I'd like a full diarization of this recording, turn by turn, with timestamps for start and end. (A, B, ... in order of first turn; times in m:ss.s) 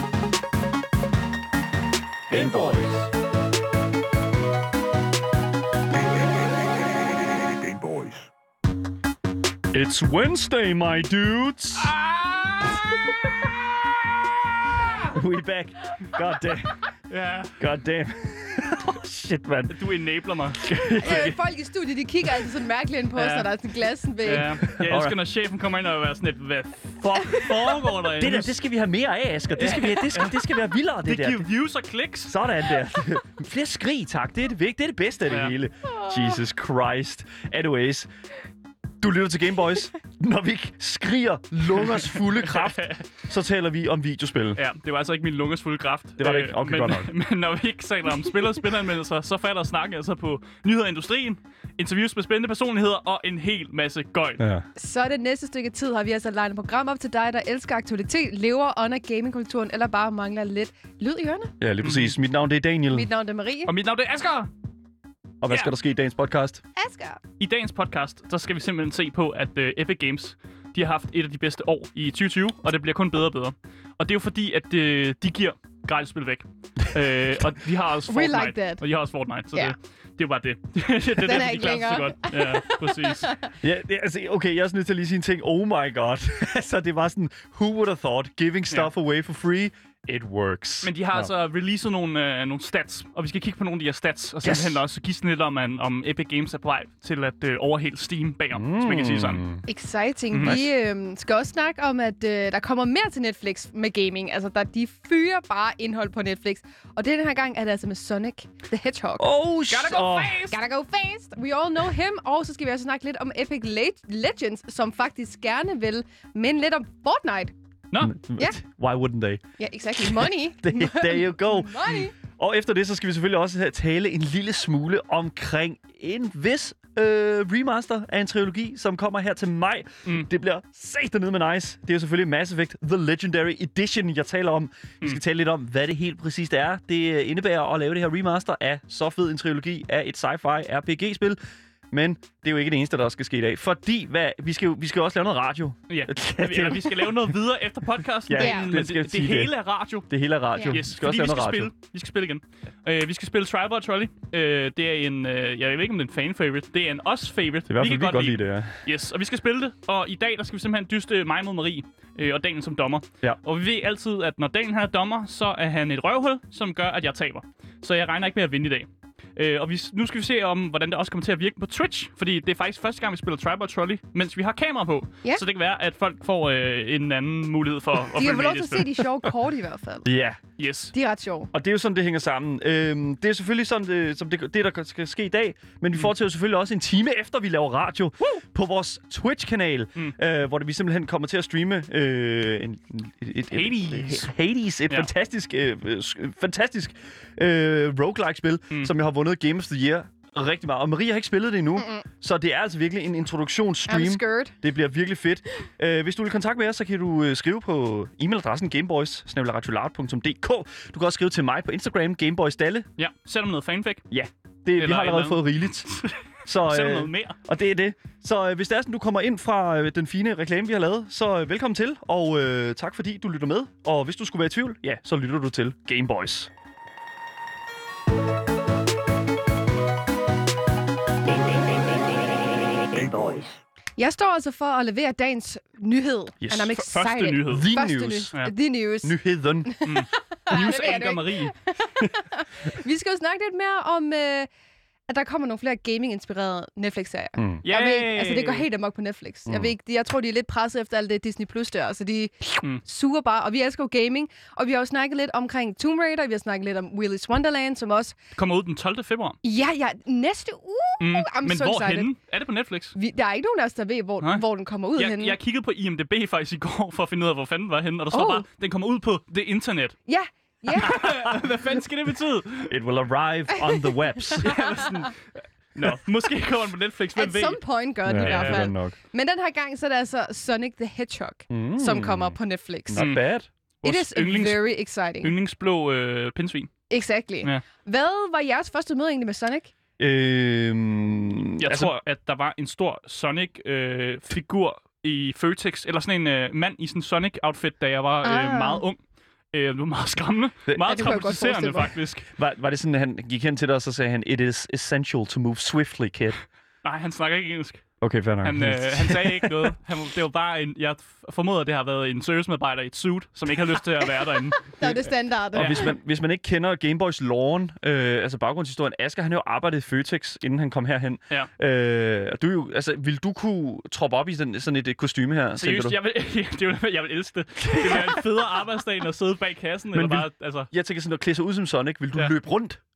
0:02.3-0:03.0 A
0:09.7-0:11.9 A
0:11.9-0:12.8 B
0:15.0-0:16.9 A
0:17.1-0:17.6 B
0:17.6-0:19.7 A
0:19.7-0:20.7 B
0:20.6-0:21.4 A
0:21.0-0:24.6 C
0:23.1-0:23.5 B
0:24.2-0:28.5 B
0:24.6-0:25.2 A
0:27.4-0:31.4 A
0:29.5-0:30.4 B
0:31.0-0:32.4 B
0:32.3-0:38.1 A
0:35.3-0:35.5 B
0:39.0-0:44.6 A
0:41.9-0:43.0 B
0:44.6-0:54.4 B
0:46.2-0:47.1 A
0:54.4-0:54.6 A
0:54.8-1:01.5 C
1:01.6-1:03.1 A
1:01.8-1:02.1 B
1:02.9-1:03.7 C
1:03.7-1:04.5 B
1:05.4-1:06.6 A
1:05.5-1:05.7 B
1:06.8-1:07.2 C
1:07.4-1:23.3 B
1:16.8-1:17.1 A
1:18.1-1:18.8 C
1:21.2-1:23.5 C
1:23.6-1:31.3 A
1:30.8-1:39.4 B
1:34.4-1:34.8 A
1:38.5-1:39.6 A
1:39.6-1:49.3 C
1:40.3-1:40.6 B
1:40.4-1:40.7 A
1:49.2-1:50.4 A
1:49.7-1:50.6 B
1:50.4-1:57.5 C
1:57.9-1:58.2 B
1:58.0-1:59.4 A
1:59.6-2:02.1 C
2:00.0-2:21.4 A
2:21.9-2:27.4 A
2:25.9-2:30.1 B
2:28.3-2:29.5 A
2:28.4-2:28.8 C
2:30.1-2:31.7 A
2:30.5-2:30.8 C
2:30.7-2:58.9 B
2:37.7-2:38.8 A
2:58.1-3:00.1 C
3:00.0-3:00.4 A
3:00.6-3:00.9 B
3:00.9-3:01.5 C
3:01.5-3:32.9 A
3:13.5-3:14.3 B
3:21.8-3:22.0 C
3:23.9-3:24.5 C
3:33.0-3:34.0 B
3:34.1-3:46.5 A
3:34.8-3:37.4 B
3:51.2-3:52.2 A
3:52.8-3:53.5 A
3:54.0-4:04.5 C
3:56.4-3:56.8 A
3:56.7-3:57.7 B
3:57.4-3:58.3 A
3:59.0-3:59.7 A
3:59.8-4:01.6 B
4:05.1-4:18.1 C
4:07.4-4:07.6 A
4:07.6-4:08.7 B
4:18.3-4:19.4 B
4:19.4-4:22.1 C
4:21.0-4:22.9 B
4:22.9-4:25.4 C
4:25.0-4:30.0 B
4:28.1-4:28.4 C
4:30.1-4:31.0 C
4:30.8-4:32.7 B
4:30.8-4:31.4 A
4:32.7-4:34.7 A
4:33.5-4:35.1 C
4:34.4-4:37.6 B
4:37.2-4:43.1 C
4:38.0-4:39.0 A
4:38.2-4:38.7 B
4:41.5-4:42.4 A
4:42.9-4:43.5 A
4:43.0-4:43.3 B
4:43.8-4:44.7 B
4:43.8-4:45.3 C
4:45.2-4:46.7 B
4:46.9-4:49.7 C
4:50.0-4:51.9 A
4:51.6-4:59.0 B
4:58.2-4:58.8 C
4:59.5-5:02.3 B
5:00.7-5:01.1 A
5:00.8-5:01.9 C
5:02.3-5:06.4 A
5:06.8-5:07.9 B
5:08.0-5:09.7 A
5:08.4-5:14.7 B
5:14.0-5:15.9 C
5:15.5-5:15.8 B
5:15.5-5:26.0 A
5:25.6-5:30.7 B
5:27.7-5:28.1 A
5:29.9-5:32.8 A